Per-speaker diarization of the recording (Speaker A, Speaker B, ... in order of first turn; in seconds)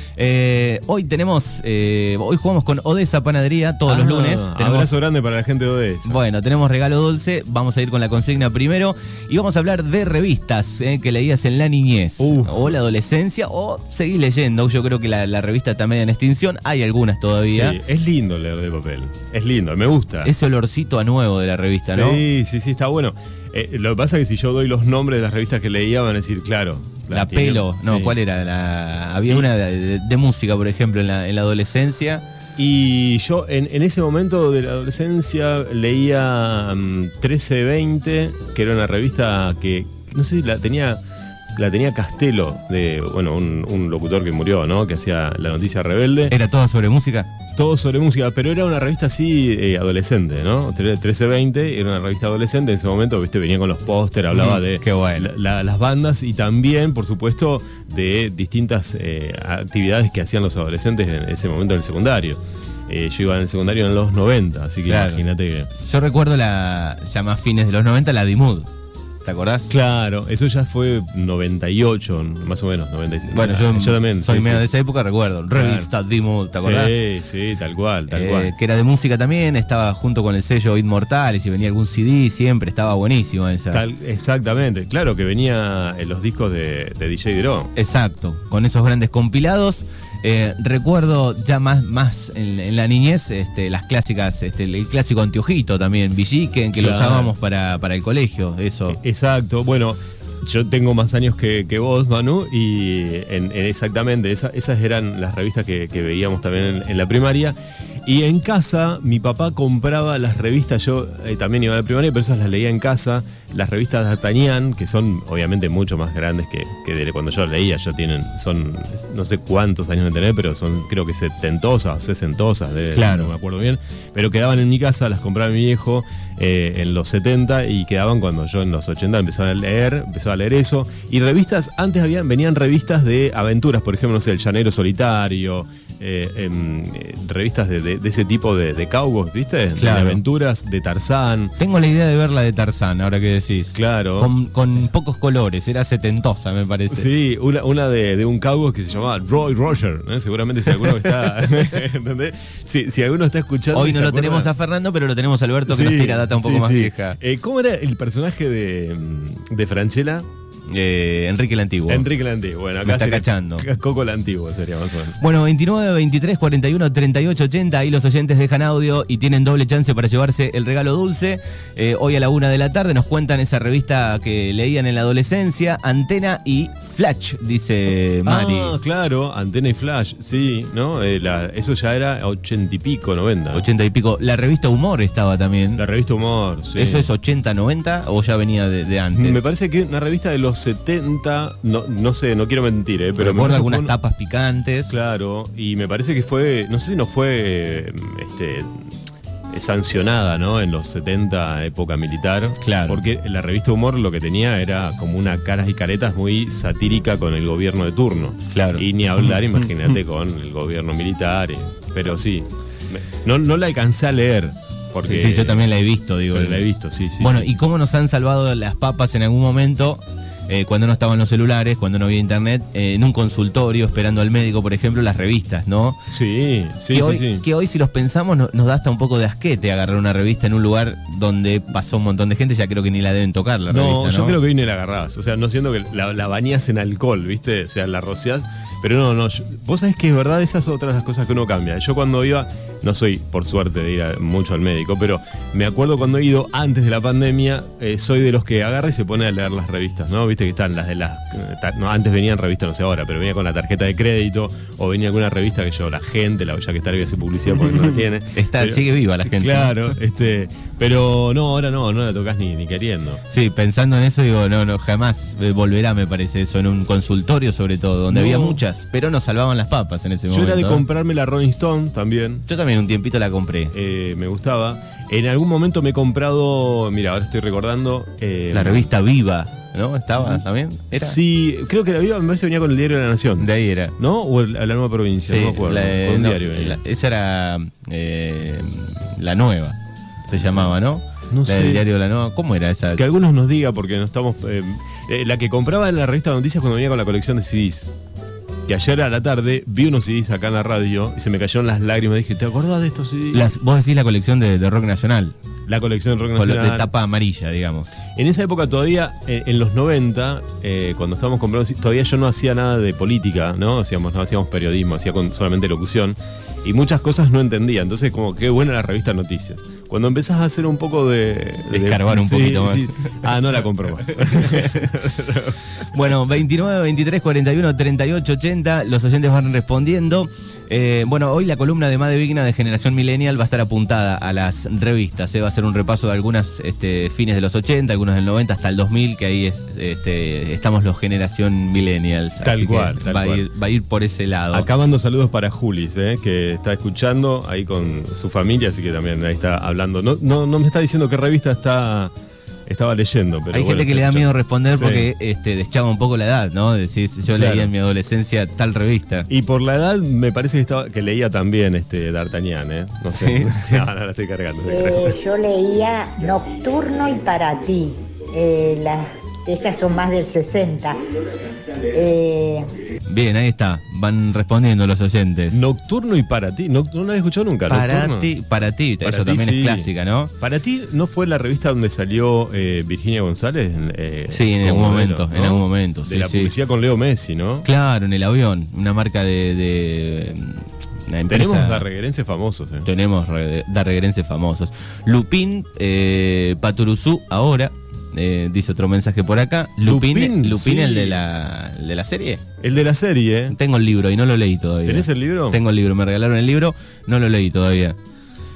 Speaker A: 0.2-4.9, 6.1-17.8, 20.2-22.2, 27.1-32.2, 46.3-47.3, 54.3-55.3, 64.9-65.2, 65.8-68.7, 69.2-69.7, 73.3-77.0, 78.1-83.8, 87.8-99.0, 122.9-123.3, 139.8-140.2, 141.6-147.1, 153.7-157.2, 160.7-162.1, 162.8-163.7, 165.2-178.8, 183.6-185.8, 186.8-189.4, 193.2-194.9, 202.6-203.0, 208.5-209.7, 215.0-216.7, 217.2-226.0, 226.9-234.4, 258.4-260.0, 263.3-270.8, 272.5-273.7, 278.5-281.2, 283.4-283.9, 285.3-289.8, 290.3-293.0, 303.3-305.4, 306.4-307.9, 321.7-322.9, 325.9-344.7, 353.5-359.3, 363.1-363.9, 373.1-375.7, 377.7-380.3, 384.3-386.5, 387.6-391.9, 392.9-402.4, 403.5-408.0
Speaker B: 3.9-6.2, 12.2-12.8, 17.5-20.3, 21.9-28.2, 32.6-41.0, 41.6-46.3, 47.5-65.7, 69.7-74.7, 75.5-75.9, 76.6-78.5, 83.7-87.7, 96.7-97.3, 98.9-141.5, 143.7-144.3, 146.9-154.5, 155.7-160.3, 161.9-165.2, 178.3-183.7, 185.8-187.1, 189.1-193.9, 194.9-198.7, 199.5-215.7, 216.3-217.5, 226.1-227.4, 233.7-263.2, 268.1-268.6, 270.3-272.4, 273.7-278.9, 280.9-286.8, 291.3-291.9, 292.9-297.9, 298.7-303.5, 305.7-306.9, 308.2-325.6, 342.4-343.5, 344.5-352.1, 352.7-355.1, 357.3-357.7, 359.3-365.2, 375.5-378.3, 379.0-379.9, 380.4-387.7, 391.3-392.9, 399.9-401.2, 402.6-403.6, 404.9-405.6
Speaker C: 364.7-371.0, 371.6-372.7